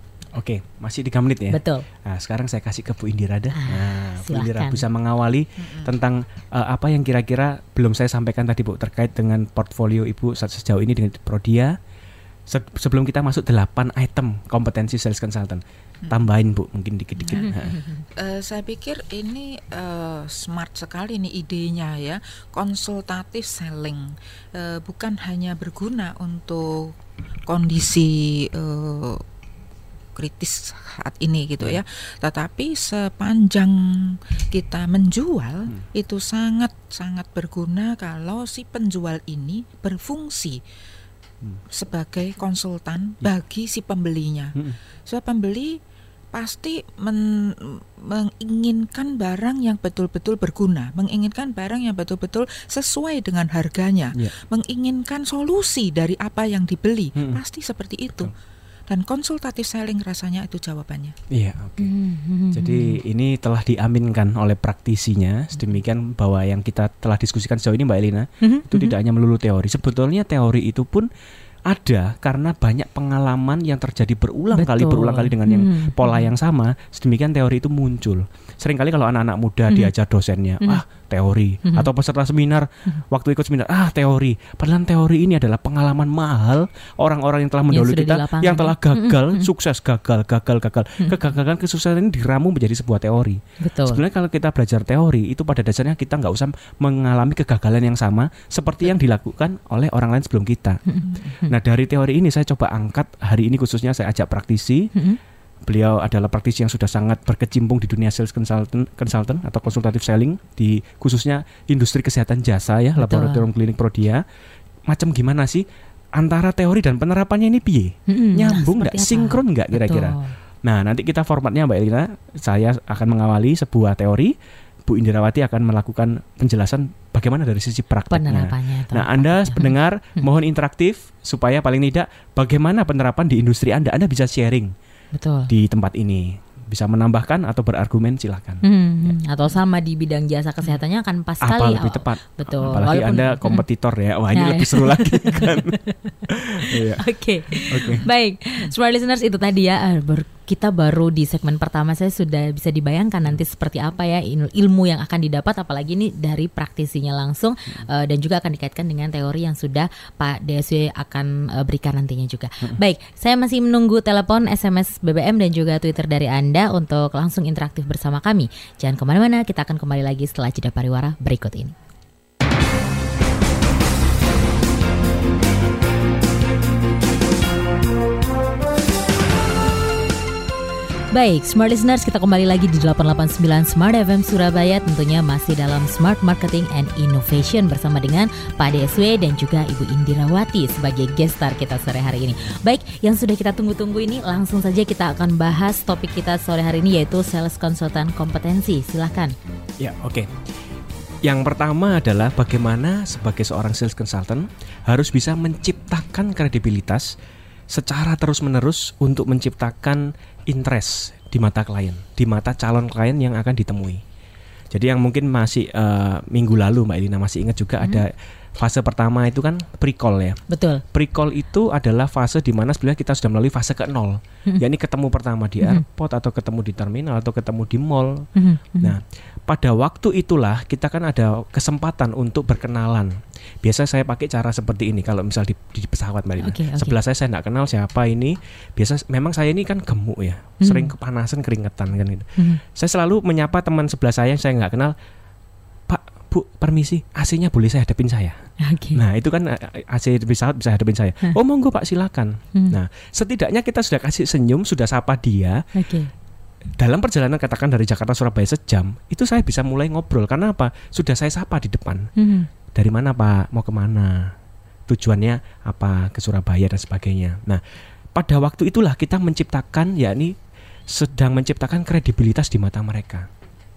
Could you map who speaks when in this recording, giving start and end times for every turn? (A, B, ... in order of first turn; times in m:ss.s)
0:00.4-0:11.8 A
0:01.5-0:01.9 B
0:03.5-0:04.8 B
0:05.6-0:05.9 C
0:12.5-0:17.8 A
0:17.2-0:17.5 C
0:17.4-0:17.8 B
0:18.2-0:27.0 C
0:27.5-0:29.2 C
0:30.2-0:40.6 C
0:41.7-0:45.8 C
0:46.3-0:58.3 C
0:58.9-1:01.2 C
1:01.3-1:01.9 A
1:01.8-1:03.0 B
1:02.5-1:11.1 A
1:08.4-1:09.0 B
1:11.7-1:40.8 A
1:14.5-1:16.3 B
1:27.7-1:29.5 B
1:33.6-1:34.0 B
1:40.9-1:41.5 B
1:41.5-1:44.9 A
1:45.7-1:54.2 A
1:53.0-1:53.5 B
1:54.9-1:55.6 A
1:56.2-2:04.3 A
1:58.1-2:00.3 B
2:04.9-2:14.7 A
2:08.1-2:10.3 B
2:15.2-2:15.5 B
2:15.5-2:19.2 A
2:18.6-2:23.6 B
2:21.4-2:25.8 A
2:24.3-2:51.7 B
2:26.3-2:27.0 A
2:27.7-2:28.0 A
3:01.1-3:19.3 B
3:19.8-3:20.3 A
3:21.2-3:27.2 A
3:27.7-3:34.0 A
3:34.7-3:40.4 A
3:40.5-3:40.8 B
3:40.9-3:48.3 A
3:48.4-3:49.0 B
3:48.8-4:05.0 A
3:56.4-3:57.0 B
4:00.6-4:00.9 B
4:05.9-4:08.4 A
4:08.6-4:09.0 B
4:09.0-4:15.6 A
4:15.8-4:16.1 B
4:16.8-4:22.1 A
4:22.2-4:22.5 B
4:22.7-4:24.3 A
4:24.9-4:27.6 A
4:28.2-4:30.4 A
4:30.9-4:33.3 A